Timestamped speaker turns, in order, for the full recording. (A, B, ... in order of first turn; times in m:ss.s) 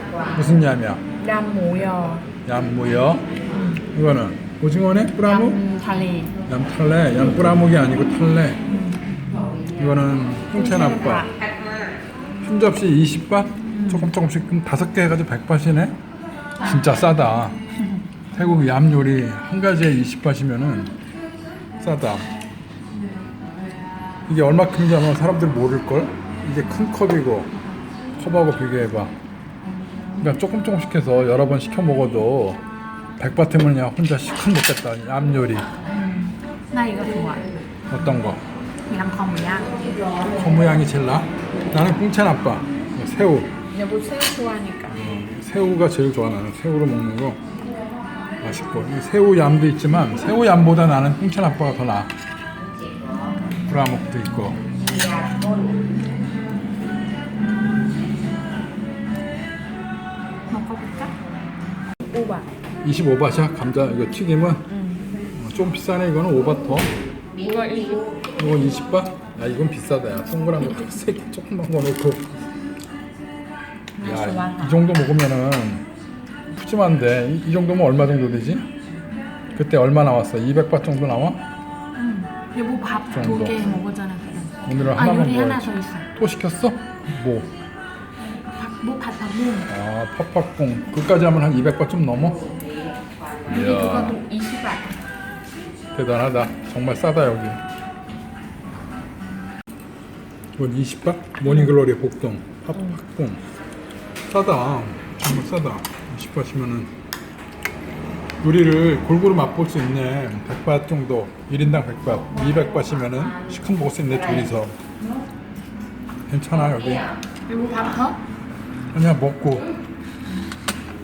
0:00.3-0:01.0 A
0:01.2-0:02.3 B
0:02.4-0:03.3 A
0:03.5-0:03.8 B
0:03.9-0:05.6 A
0:05.2-0:06.3 B
0:06.5-0:08.6 A
0:08.7-0:09.1 B
0:09.8-0:11.3 A
0:10.5-0:11.3 B
0:12.4-0:16.0 A
0:13.7-0:14.1 B
0:16.6-0:17.6 A
0:18.3-0:20.9 A
0:21.8-0:22.3 A
0:24.3-0:27.5 A
0:28.2-0:29.2 A
0:30.2-0:32.6 A
0:33.2-0:35.7 A
0:35.9-0:37.5 B
0:37.9-0:38.4 A
0:38.9-0:39.8 B
0:40.2-0:43.5 A
0:43.7-0:45.0 B
0:44.9-0:47.4 A
0:48.4-0:52.1 A
0:53.7-0:54.6 A
1:00.5-1:01.1 B
1:02.1-1:02.5 B
1:02.8-1:04.7 A
1:04.7-1:05.1 B
1:05.3-1:06.9 A
1:07.4-1:08.2 B
1:08.3-1:12.4 A
1:14.0-1:14.8 B
1:14.0-1:15.8 A
1:16.5-1:18.7 A
1:19.6-1:21.4 A
1:22.0-1:26.1 B
1:23.1-1:23.6 A
1:24.6-1:27.5 A
1:28.6-1:29.7 B
1:29.7-1:32.5 A
1:33.4-1:34.2 A
1:33.4-1:35.0 B
1:35.9-1:37.6 A
1:40.6-1:43.4 A
1:41.4-1:41.7 B
1:44.3-1:46.9 A
1:48.4-1:54.8 A
1:56.3-1:57.1 A
1:57.5-1:58.2 B
1:58.9-1:59.7 A